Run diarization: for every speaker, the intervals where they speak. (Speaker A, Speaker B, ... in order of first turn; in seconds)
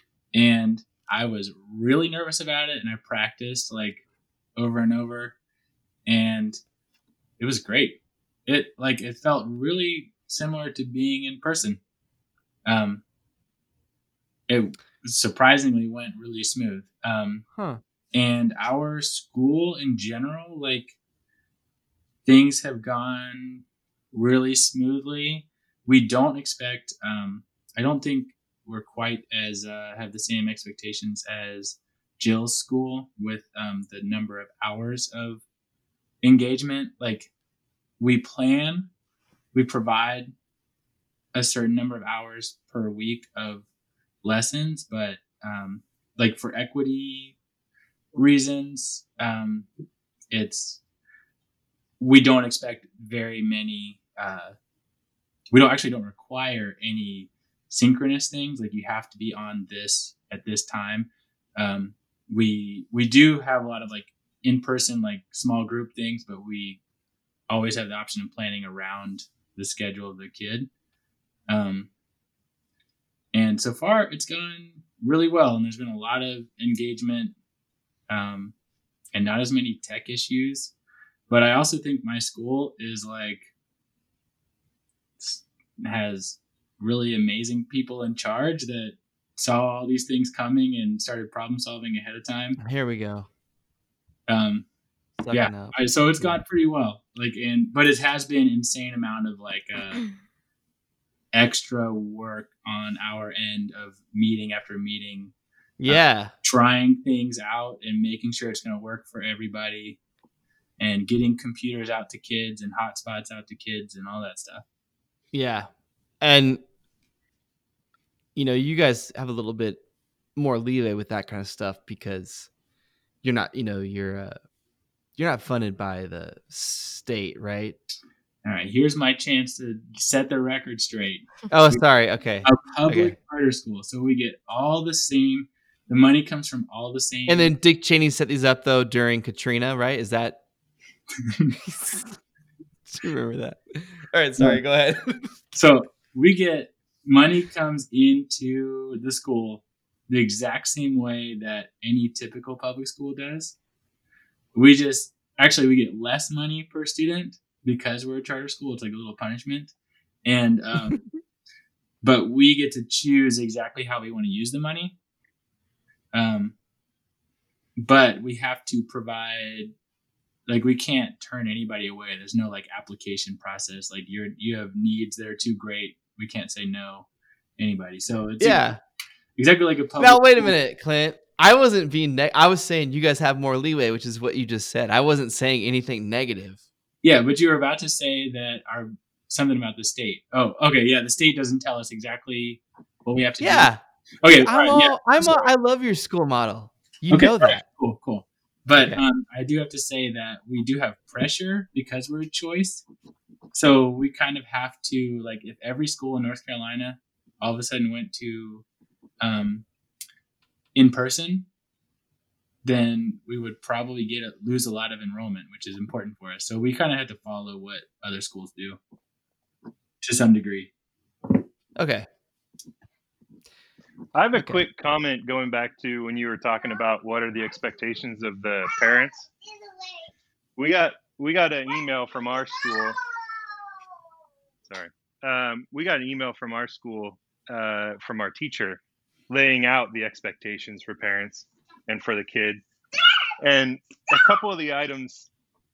Speaker A: 0.3-4.0, 4.6-5.4, 6.1-6.6, 7.4-11.8, 12.7-13.0, 14.5-17.4, 18.1-21.0, 22.2-35.4, 36.2-37.3, 38.0-38.9, 39.5-40.3, 41.3-43.7, 44.2-47.4, 48.1-49.7, 50.3-50.8, 52.0-54.5, 55.5-66.8, 67.5-70.7, 71.5-71.9, 73.3-77.3, 78.1-78.5, 79.1-80.7, 81.3-83.5, 85.2-92.6, 94.3-94.7, 95.3-100.1, 101.3-105.3, 105.9-110.0, 110.8-114.6, 128.4-131.8, 132.4-137.5, 141.3-141.5, 145.6-153.6, 154.6-159.7, 160.2-161.0, 162.0-164.9, 166.1-166.5, 167.8-169.7, 170.5-177.1, 177.6-178.7, 179.4-180.5, 187.0-193.7, 194.2-195.5, 197.1-202.8, 203.5-208.7, 209.2-209.7, 210.8-211.5, 212.6-218.8, 220.0-220.7
Speaker B: 17.6-17.8, 92.6-93.3, 95.2-96.4, 105.8-106.3, 115.3-115.7, 116.2-116.6, 118.3-119.8, 120.4-122.5, 123.2-124.4, 125.2-127.8, 131.5-133.2, 137.3-140.4, 141.6-142.2, 142.9-145.6, 178.4-178.8, 180.0-186.6, 193.4-193.8, 194.3-197.6, 198.8-199.0, 221.8-222.1, 224.4-224.7
Speaker C: 224.1-229.3, 230.6-233.0, 234.7-242.6, 243.4-245.3